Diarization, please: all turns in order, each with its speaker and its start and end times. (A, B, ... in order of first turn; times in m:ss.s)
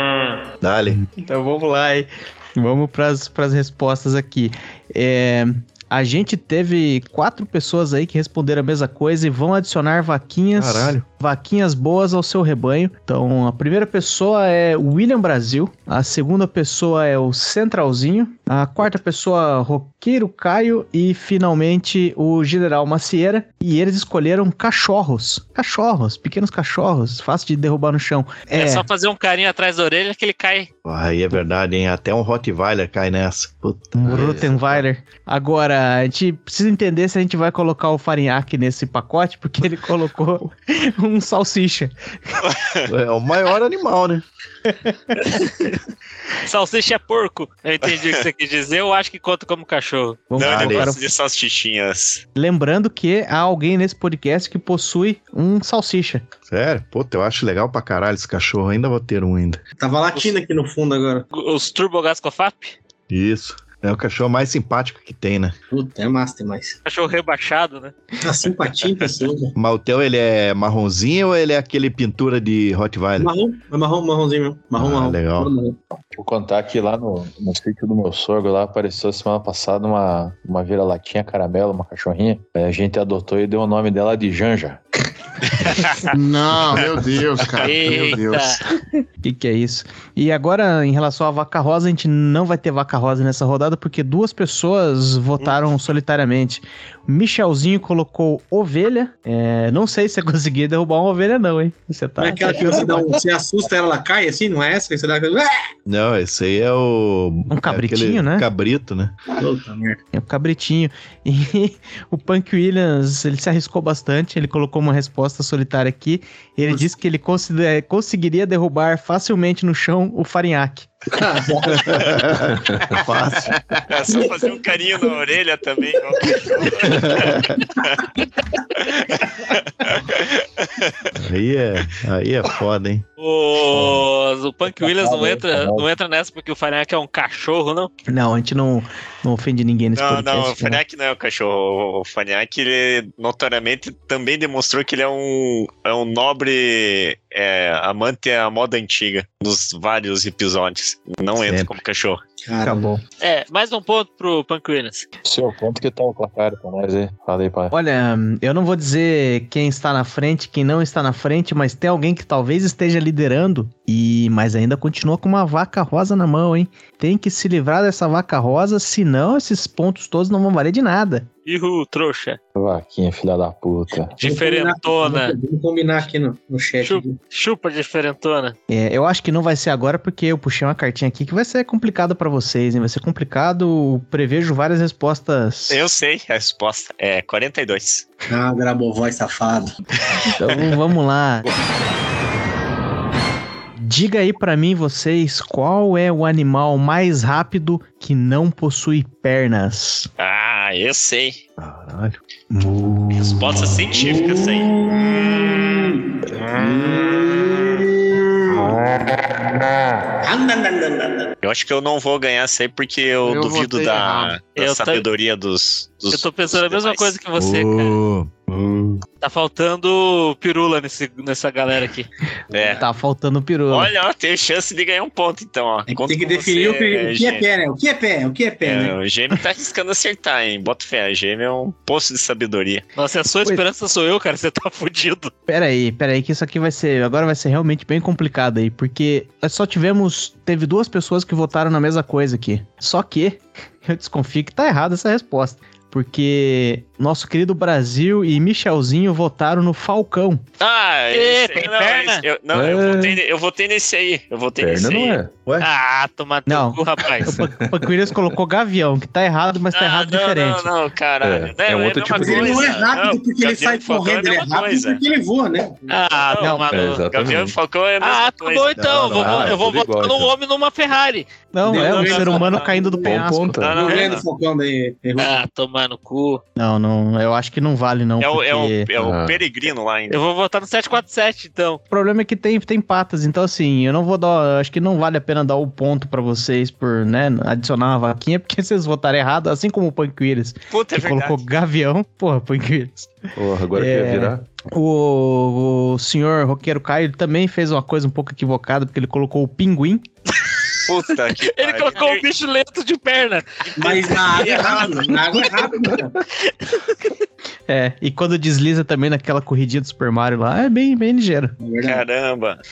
0:00.6-0:01.0 A
0:00.9-0:28.8 B
0:10.6-0:11.0 A
0:28.5-0:30.7 C
0:30.8-0:34.8 A
0:34.0-0:42.4 B
0:42.4-0:42.9 D
0:42.9-0:44.2 A
0:44.7-0:45.1 B
0:45.2-0:45.7 C
0:46.4-0:50.3 C
0:47.8-0:48.2 D
0:50.3-0:51.1 B
0:50.4-0:52.2 D
0:50.4-0:50.9 A
0:52.3-0:56.2 B
0:56.5-0:59.6 A
0:59.8-1:01.2 E
1:01.3-1:02.8 C
1:03.1-1:05.5 A
1:05.7-1:06.8 E
1:06.8-1:07.9 C
1:08.2-1:09.5 E
1:09.5-1:13.3 A
1:13.2-1:15.8 E
1:14.8-1:15.5 A
1:16.1-1:24.8 F
1:26.0-1:28.6 G
1:27.6-1:28.6 C
1:29.2-1:43.1 B
1:42.2-1:45.5 E
1:45.9-1:49.1 A
1:47.5-1:48.4 B
1:49.4-1:50.0 E
1:50.1-2:00.9 B
2:01.1-2:02.3 E
2:01.7-2:03.6 A
2:03.9-2:08.0 D
2:04.1-2:04.6 E
2:06.9-2:07.6 A
2:08.8-2:11.1 D
2:11.1-2:13.0 A
2:13.2-2:17.9 C
2:14.6-2:15.9 F
2:18.1-2:20.8 B
2:20.0-2:32.2 D
2:31.4-2:31.7 A
2:32.4-2:32.9 E
2:33.2-2:35.1 C
2:35.2-2:37.7 F
2:37.7-2:51.3 B
2:51.4-2:52.4 C
2:52.5-2:54.2 F
2:54.2-2:55.4 C
2:54.2-2:57.2 E
2:56.8-2:58.5 C
2:58.7-3:05.8 B
3:05.7-3:08.0 D
3:08.3-3:09.8 E
3:10.3-3:11.5 B
3:13.8-3:20.1 B
3:20.2-3:21.4 D
3:21.6-3:22.2 A
3:22.5-3:24.2 B
3:23.2-3:25.0 D
3:30.2-3:31.3 E
3:31.4-3:37.1 D
3:33.2-3:34.4 G
3:34.5-3:35.0 C
3:36.1-3:38.0 C
3:37.4-3:38.9 A
3:39.2-3:42.1 C
3:42.5-3:42.8 D
3:42.5-3:42.8 E
3:42.8-3:43.9 B
3:43.7-3:47.5 D
3:45.9-3:49.0 E
3:48.6-3:52.8 D
3:53.0-3:55.3 C
3:55.5-4:10.4 B
4:10.6-4:15.2 D
4:11.1-4:12.2 C
4:12.5-4:13.2 H
4:14.6-4:15.3 H
4:15.6-4:17.3 C
4:16.5-4:20.7 B
4:17.3-4:17.7 H
4:19.7-4:25.0 D
4:21.2-4:22.6 H
4:22.1-4:22.8 C
4:22.2-4:25.9 E
4:25.9-4:27.1 C
4:26.3-4:29.3 D
4:26.4-4:26.7 B
4:26.7-4:27.6 H
4:28.0-4:32.6 C
4:28.8-4:29.6 A
4:29.2-4:30.3 H
4:31.5-4:33.6 B
4:31.6-4:33.0 E
4:31.7-4:32.7 D
4:33.0-4:33.9 H
4:33.6-4:34.2 D
4:33.7-4:35.4 E
4:33.8-4:34.2 C
4:35.2-4:36.4 C
4:36.6-4:38.9 B
4:38.2-4:40.2 D
4:39.0-4:39.4 H
4:40.1-4:41.8 C
4:41.9-4:53.2 B
4:50.7-4:51.4 D
4:53.3-4:54.4 H
4:53.7-5:00.0 B
5:00.8-5:02.3 D
5:01.4-5:05.6 C
5:03.8-5:06.2 E
5:03.8-5:05.0 D
5:07.7-5:11.5 B
5:11.6-5:12.0 E
5:11.8-5:12.6 D